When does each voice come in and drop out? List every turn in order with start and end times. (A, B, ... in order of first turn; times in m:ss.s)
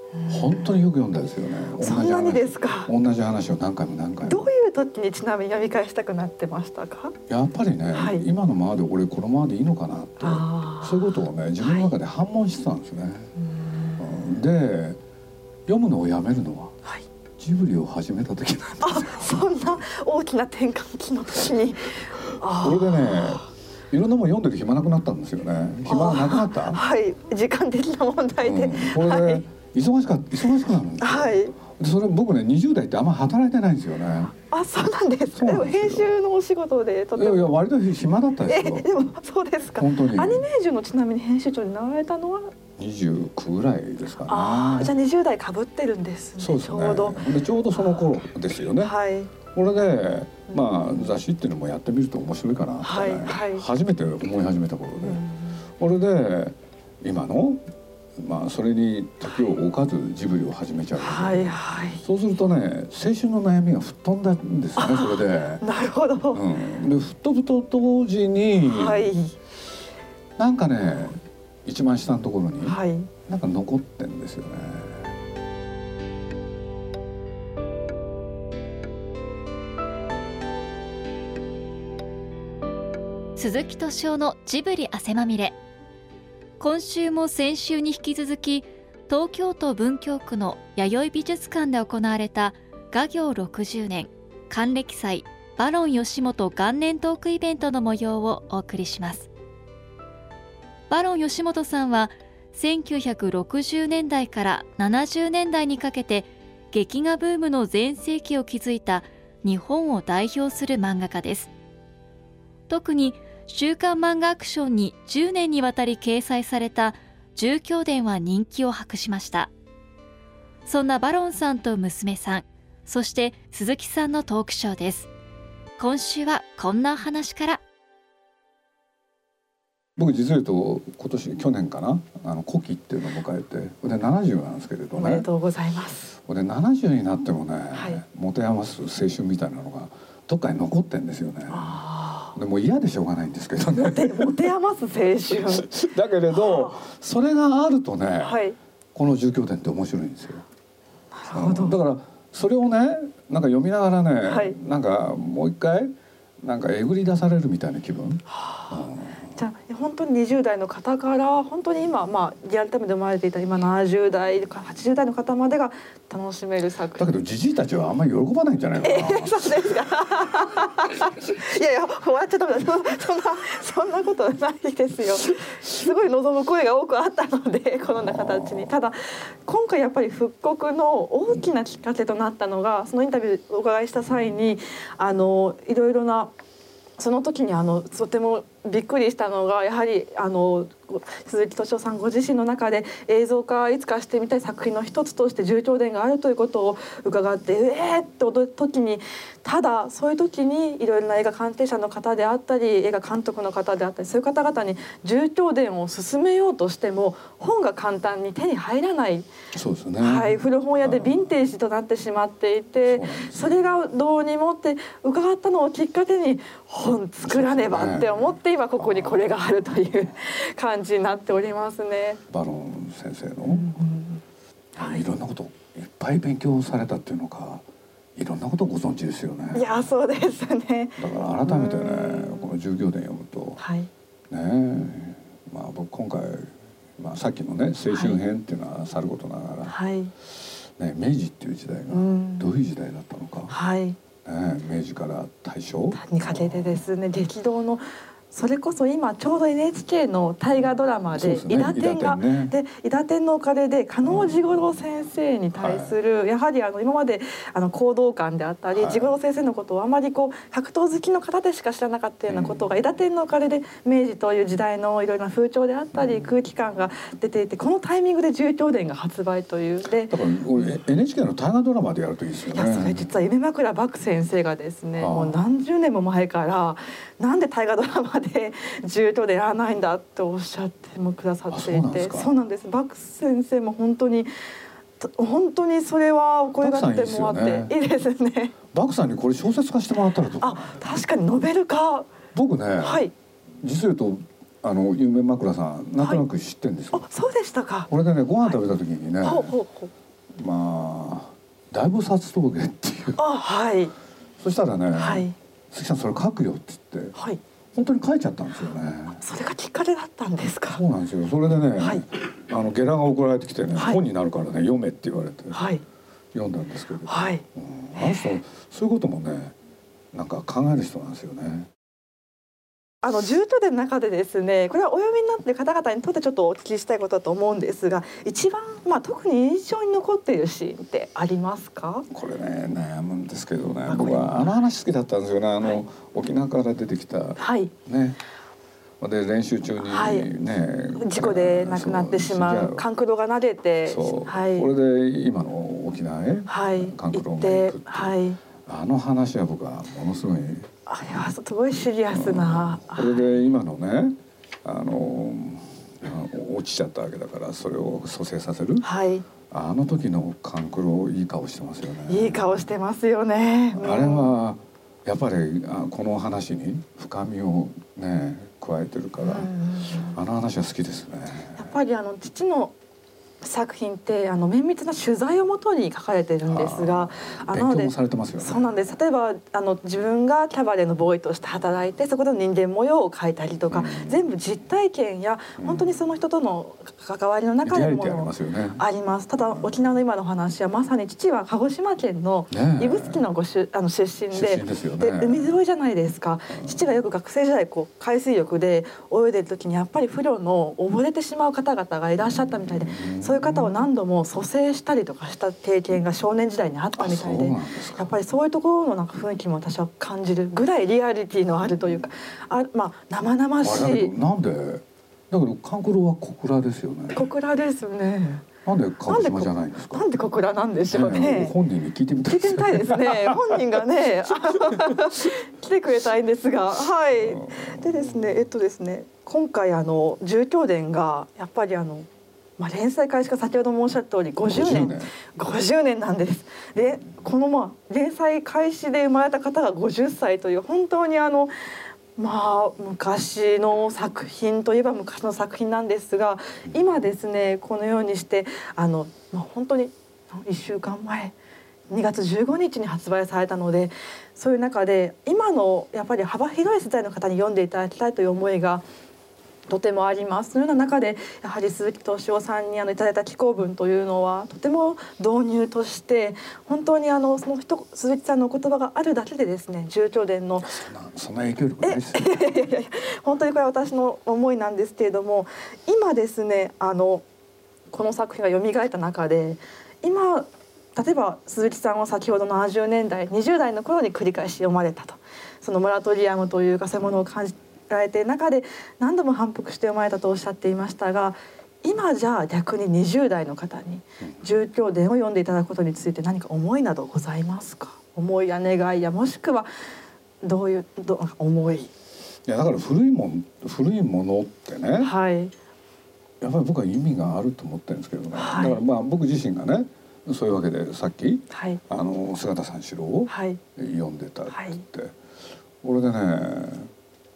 0:00.1-0:00.7 A
0:00.3-0:04.5 B
0:01.8-0:02.9 A
0:04.2-0:07.1 A
0:07.3-0:13.3 B
0:07.9-0:08.2 A
0:10.2-0:11.9 A
0:13.4-0:14.0 A
0:14.0-0:15.0 B
0:15.7-0:16.7 B
0:17.4-0:19.4 B
0:18.8-0:23.4 A
0:22.6-0:26.8 B
0:25.8-0:29.4 A
0:28.4-0:34.3 B
0:31.0-0:31.6 A
0:34.4-0:37.5 A
0:35.3-0:36.2 B
0:37.2-0:38.8 B
0:38.4-0:42.5 A
0:39.8-0:40.4 B
0:42.8-0:44.9 B
0:44.3-0:47.2 A
0:46.4-0:48.9 B
0:48.8-0:49.3 A
0:49.5-0:55.2 B
0:50.5-0:51.2 A
0:52.8-0:53.6 A
0:55.0-0:55.6 A
0:55.8-0:57.6 B
0:58.2-1:05.6 B
1:01.0-1:02.0 A
1:04.8-1:06.4 A
1:06.3-1:09.1 B
1:08.6-1:09.4 A
1:10.4-1:15.1 B
1:12.6-1:13.1 A
1:23.4-1:25.5 C
1:26.6-1:39.3 C
1:40.9-1:51.5 C
1:52.7-1:59.5 C
2:00.6-2:05.1 C
2:05.8-2:07.6 C
2:10.0-2:15.3 B
2:14.9-2:16.2 A
2:16.2-2:21.8 B
2:17.7-2:18.0 A
2:21.5-2:22.4 A
2:22.3-2:24.3 B
2:23.7-2:25.7 A
2:25.5-2:28.4 B
2:26.3-2:26.8 A
2:28.2-2:28.6 A
2:28.9-2:30.4 B
2:31.1-2:31.8 A
2:31.3-2:39.4 B
2:34.2-2:34.6 A
2:38.3-2:47.1 A
2:47.0-2:49.4 B
2:48.8-3:06.3 A
2:58.0-2:58.7 B
3:07.0-3:29.3 A
3:29.5-3:31.3 B
3:30.0-3:42.2 A
3:32.9-3:33.6 B
3:37.2-3:39.4 B
3:42.3-3:43.7 B
3:43.4-3:44.2 A
3:44.7-3:47.6 B
3:44.8-3:45.0 A
3:48.2-3:49.6 B
3:49.5-3:52.5 A
3:51.0-3:53.6 B
3:53.6-3:53.9 A
3:54.3-3:59.7 B
3:57.9-3:58.2 A
3:59.7-4:00.1 A
4:00.3-4:03.5 B
4:01.9-4:02.5 A
4:03.5-4:04.0 A
4:04.2-4:06.7 B
4:05.9-4:30.2 A
4:11.2-4:12.5 B
4:14.0-4:14.6 B
4:15.5-4:16.0 B
4:18.7-4:19.1 B
4:22.3-4:22.6 B
4:30.1-4:33.0 B
4:32.5-4:44.3 A
4:35.0-4:35.4 B
4:41.5-4:42.3 B
4:45.0-4:48.5 A
4:46.6-4:47.7 B
4:48.7-4:50.8 B
4:50.4-4:52.1 A
4:52.3-4:53.0 B
4:52.8-4:53.1 A
4:53.6-4:57.0 B
4:56.9-4:57.9 A
4:57.9-4:59.5 B
4:59.2-4:59.9 A
5:00.3-5:03.2 B
5:03.2-5:03.9 A
5:04.4-5:07.1 B
5:04.9-5:05.3 A
5:07.1-5:07.4 A
5:07.7-5:09.2 B
5:09.2-5:10.8 A
5:10.7-5:15.6 B
5:11.8-5:12.0 A
5:13.8-5:14.0 A
5:15.5-5:15.8 A
5:16.3-5:19.5 B
5:17.1-5:17.4 A
5:17.9-5:18.3 A
5:20.1-5:21.7 B
5:23.0-5:32.0 A
5:32.1-5:38.2 B
5:33.9-5:34.6 A
5:37.4-5:37.7 A
5:39.0-5:42.8 B
5:39.8-5:40.3 A
5:41.0-5:44.7 A
5:43.8-5:50.7 B
5:46.5-5:48.4 A
5:50.9-5:53.4 A
5:52.1-5:58.8 B
5:58.8-5:59.2 A
5:59.5-6:02.6 B
6:02.1-6:04.3 A
6:03.8-6:09.5 B
6:09.2-6:10.2 A
6:10.1-6:11.7 B
6:11.6-6:12.7 A
6:13.4-6:54.1 A
6:16.5-6:18.9 B
6:23.7-6:24.2 B
6:25.6-6:25.9 B
6:27.6-6:28.8 B
6:29.4-6:29.8 B
6:32.5-6:33.2 B
6:34.3-6:35.6 B
6:36.5-6:36.8 B
6:42.7-6:43.8 B
6:47.0-6:48.1 B
6:53.6-6:57.3 B
6:57.1-6:58.5 A
6:58.6-7:00.1 B
6:59.1-7:01.5 A
7:00.9-7:03.6 B
7:02.3-7:12.1 A
7:07.1-7:08.2 B
7:12.6-7:21.5 A
7:14.4-7:15.1 B
7:22.2-7:31.3 A
7:31.9-7:38.8 A
7:39.7-7:50.7 A
7:50.6-7:52.6 B
7:51.8-7:57.2 A
7:57.9-8:19.7 A
8:20.4-8:21.9 A
8:22.4-8:25.1 B
8:25.0-8:25.5 A
8:26.4-8:35.1 B
8:28.3-8:28.8 A
8:31.5-8:31.8 A
8:33.3-8:33.6 A
8:34.5-8:34.8 A
8:35.8-8:36.9 B